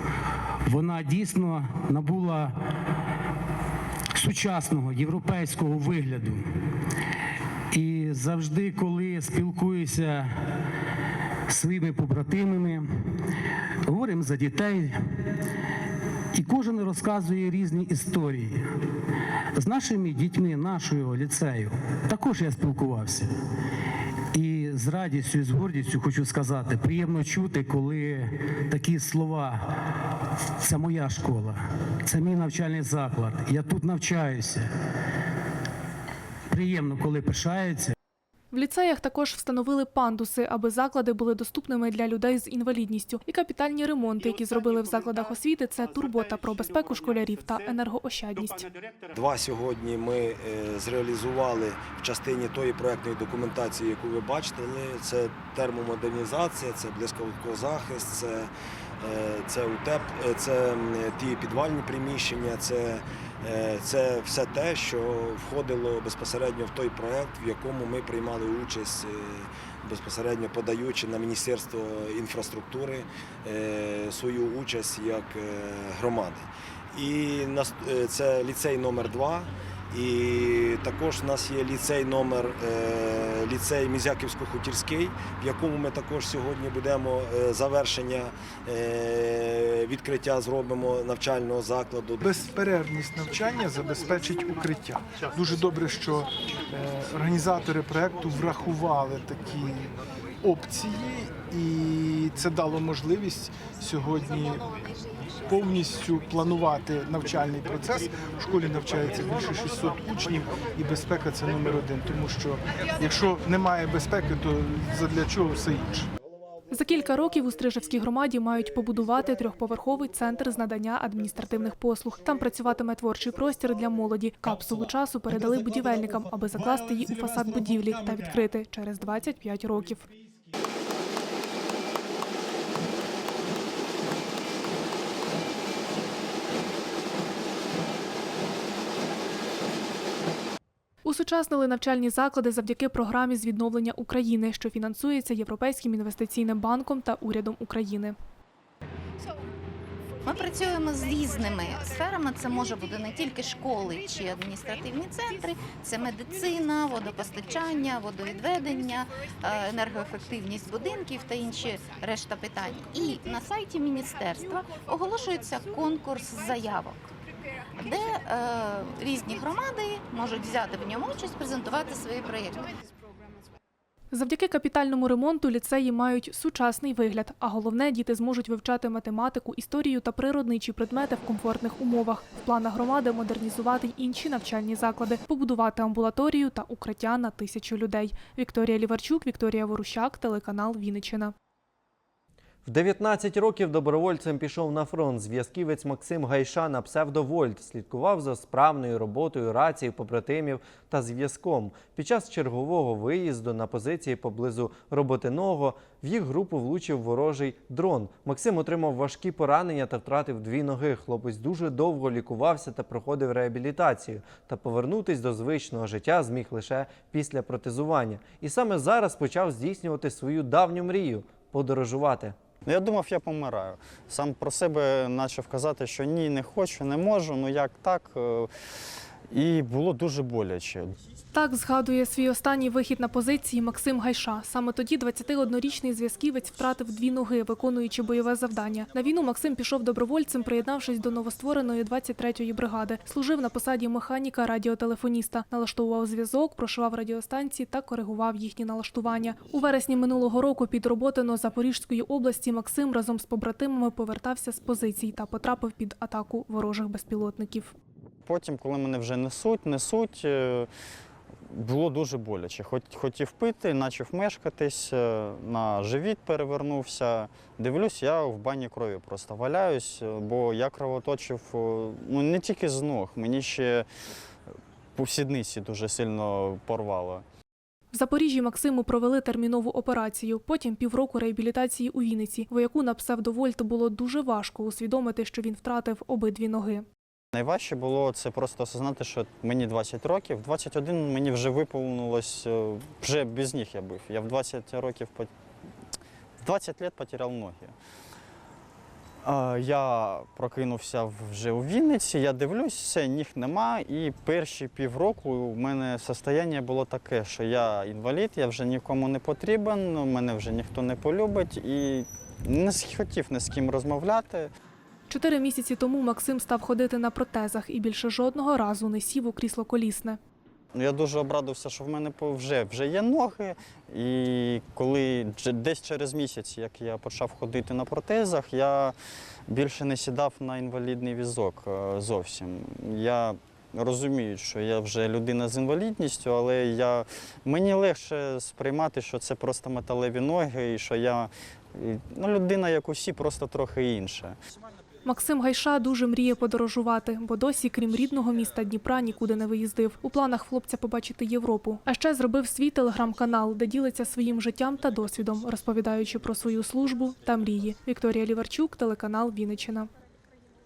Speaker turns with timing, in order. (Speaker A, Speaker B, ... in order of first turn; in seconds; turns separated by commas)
Speaker A: 0.7-2.8, Speaker A: 4.1-6.4, Speaker A: 7.7-10.6, Speaker A: 11.5-13.2, Speaker A: 13.8-15.3, Speaker A: 16.3-18.6, Speaker A: 19.5-23.3, Speaker A: 24.3-30.0, Speaker A: 30.6-34.7, Speaker A: 36.5-37.9, Speaker B: 38.5-48.7, Speaker C: 49.1-58.5, Speaker C: 59.0-92.4, Speaker D: 92.2-99.9, Speaker D: 100.4-104.7, Speaker D: 105.4-116.1, Speaker B: 116.7-130.1, Speaker B: 141.0-148.2, Speaker E: 150.2-167.0, Speaker E: 167.8-172.7, Speaker B: 174.1-191.3, Speaker F: 192.6-222.3, Speaker G: 222.6-228.5, Speaker G: 229.3-230.9, Speaker B: 231.3-257.7, Speaker G: 258.2-260.7, Speaker G: 261.5-273.9, Speaker G: 274.9-277.2, Speaker B: 277.9-286.9, Speaker G: 287.3-295.3, Speaker G: 296.4-297.7, Speaker G: 299.2-314.5, Speaker B: 315.1-320.2, Speaker G: 320.7-328.9, Speaker G: 329.5-344.3, Speaker B: 345.0-359.9